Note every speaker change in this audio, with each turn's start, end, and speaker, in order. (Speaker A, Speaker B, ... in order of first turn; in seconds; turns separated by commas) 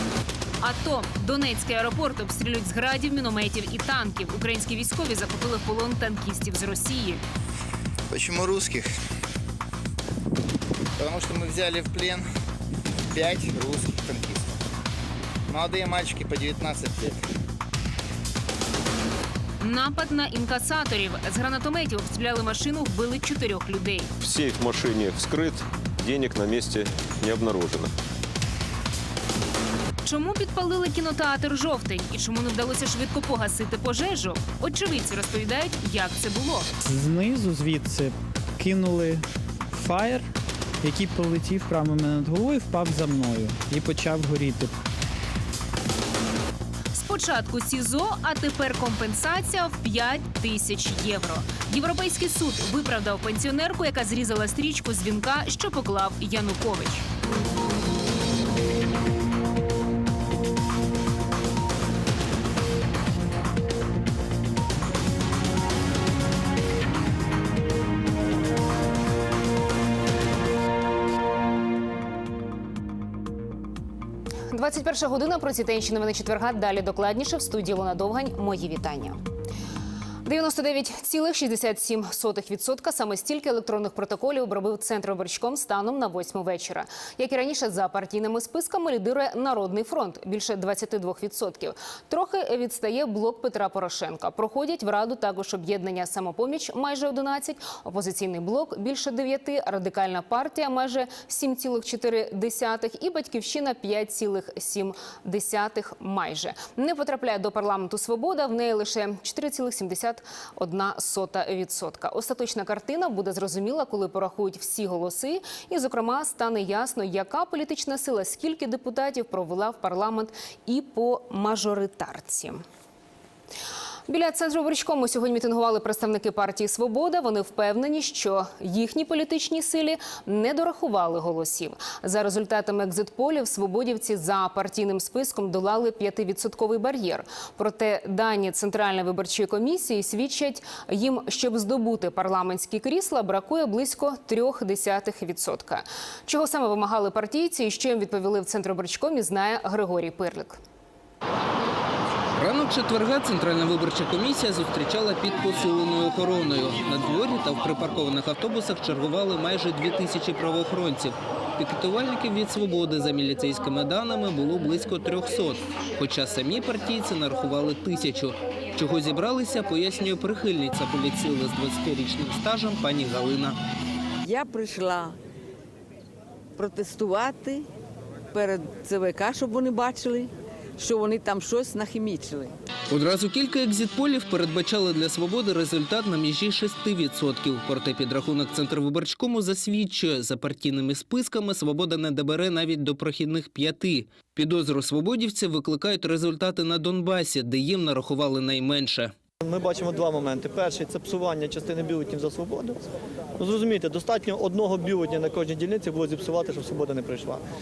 Speaker A: 0.6-7.2, Speaker B: 8.1-8.9, Speaker B: 11.0-12.2, Speaker B: 13.1-14.6, Speaker B: 15.5-17.2, Speaker A: 19.6-24.1, Speaker C: 24.2-27.9, Speaker A: 30.0-36.7, Speaker D: 36.8-40.3, Speaker D: 40.8-44.8, Speaker A: 46.9-57.0, Speaker A: 74.5-79.2, Speaker A: 80.2-122.6, Speaker A: 124.1-150.6, Speaker E: 152.4-173.6, Speaker F: 174.2-175.2, Speaker F: 176.6-177.7, Speaker F: 178.3-182.5, Speaker E: 182.9-199.1, Speaker G: 199.4-202.8, Speaker G: 203.4-207.4